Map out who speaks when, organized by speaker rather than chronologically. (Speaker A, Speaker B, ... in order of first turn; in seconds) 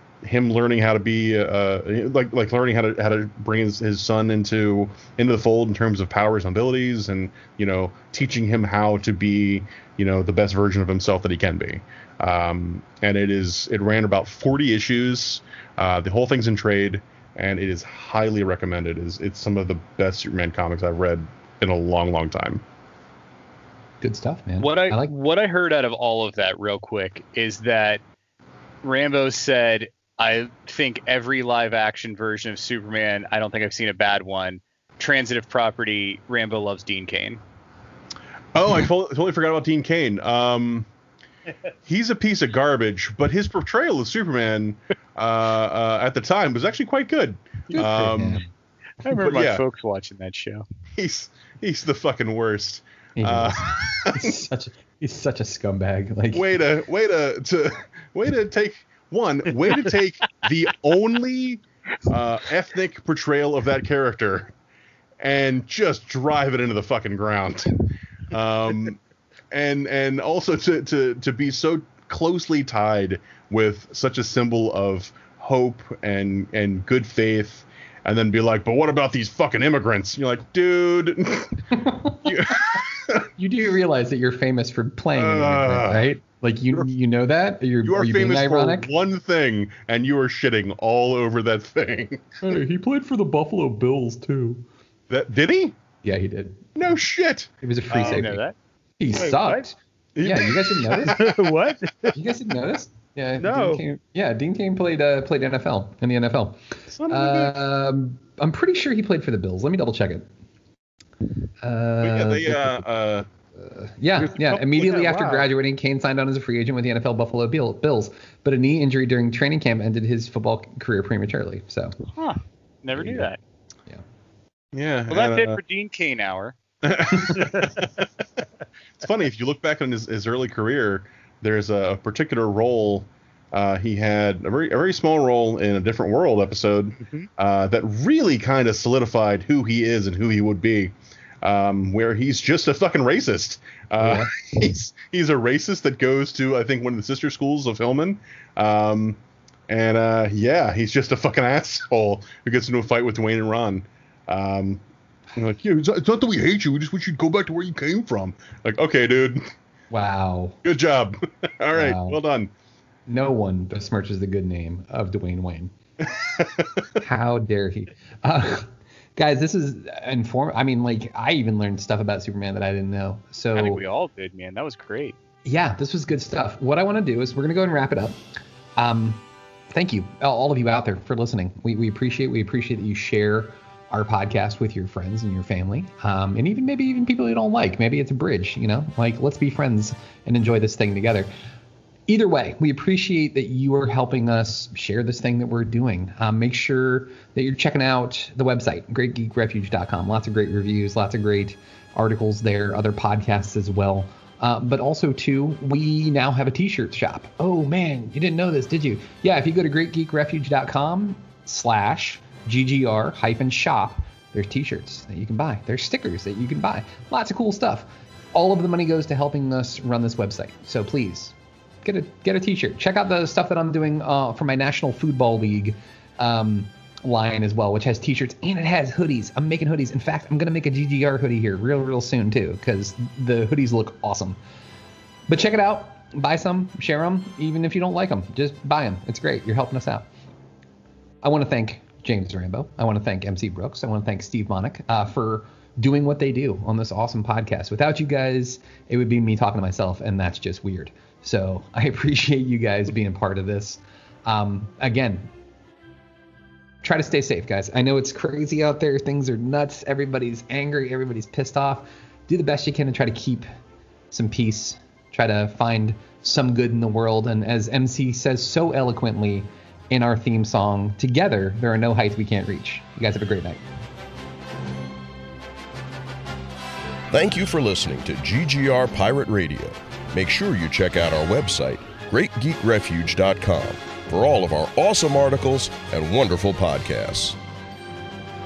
Speaker A: 0.2-22.6, 38.5-40.9, 41.9-48.5, 49.2-49.6, 50.9-54.4, 56.3-64.5, 65.2-69.0, 69.5-83.3, 85.2-86.1, 87.8-92.4, 95.1-95.8, 96.7-98.2, 100.2-101.4, 107.0-107.5, 112.0-113.3, 114.5-114.9, 124.7-125.6, 126.8-127.9, 129.0-154.8, 155.3-159.4, 160.6-162.5, 166.4-166.7
Speaker B: 24.0-25.1, 47.7-48.5, 53.1-56.5, 81.7-82.8, 83.3-88.9, 92.4-94.7, 96.0-96.7, 97.6-98.4, 99.0-101.4, 102.1-110.3, 111.6-112.8, 113.5-122.0, 123.0-123.3, 127.2-127.5, 144.0-144.3, 159.9-160.6, 161.7-162.2, 163.1-165.7, 166.9-173.8, 175.4-178.2, 178.8-191.3, 192.1-234.4, 235.3-240.1, 241.2-255.3, 256.8-263.4, 264.1-273.6
Speaker C: 24.6-28.0, 28.8-37.4, 49.0-50.6, 97.9-98.5, 122.1-123.4, 125.1-126.6, 173.5-175.2
Speaker D: 99.2-99.6, 101.0-102.2, 103.4-103.8
Speaker E: 277.1-287.4